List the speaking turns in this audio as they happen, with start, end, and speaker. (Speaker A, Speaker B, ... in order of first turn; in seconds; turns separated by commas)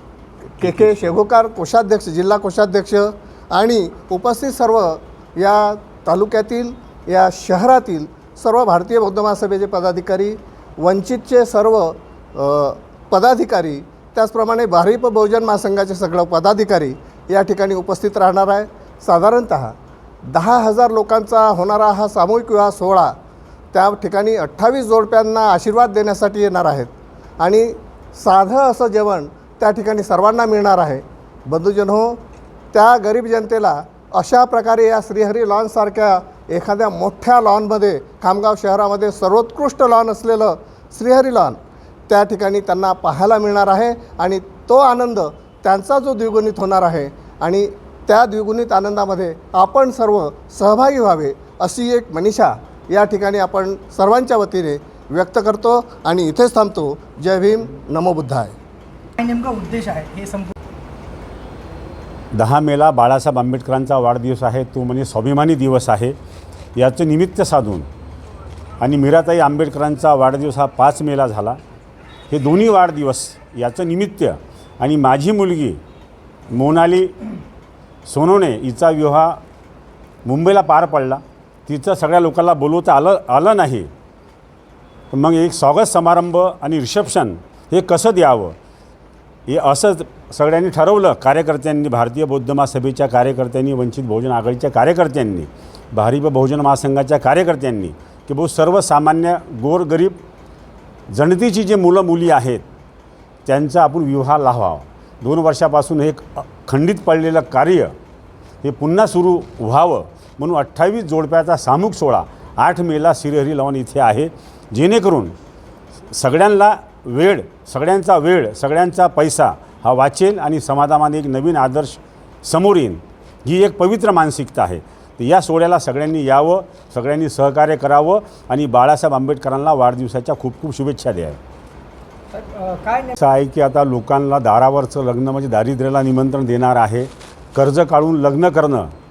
Speaker A: 0.6-23.2, Speaker B: 0.6-1.1, Speaker A: 23.7-32.2, Speaker A: 32.7-58.5, Speaker C: 59.2-60.5, Speaker B: 62.3-66.2, Speaker B: 66.8-67.9, Speaker B: 68.8-71.6, Speaker B: 72.3-75.8, Speaker B: 76.5-77.1, Speaker B: 78.1-79.4, Speaker B: 80.2-83.9, Speaker B: 85.1-88.5, Speaker B: 89.5-100.2, Speaker B: 101.1-102.6, Speaker B: 103.5-107.9, Speaker B: 108.6-115.3, Speaker B: 116.1-131.4, Speaker C: 132.3-133.2, Speaker B: 133.2-138.9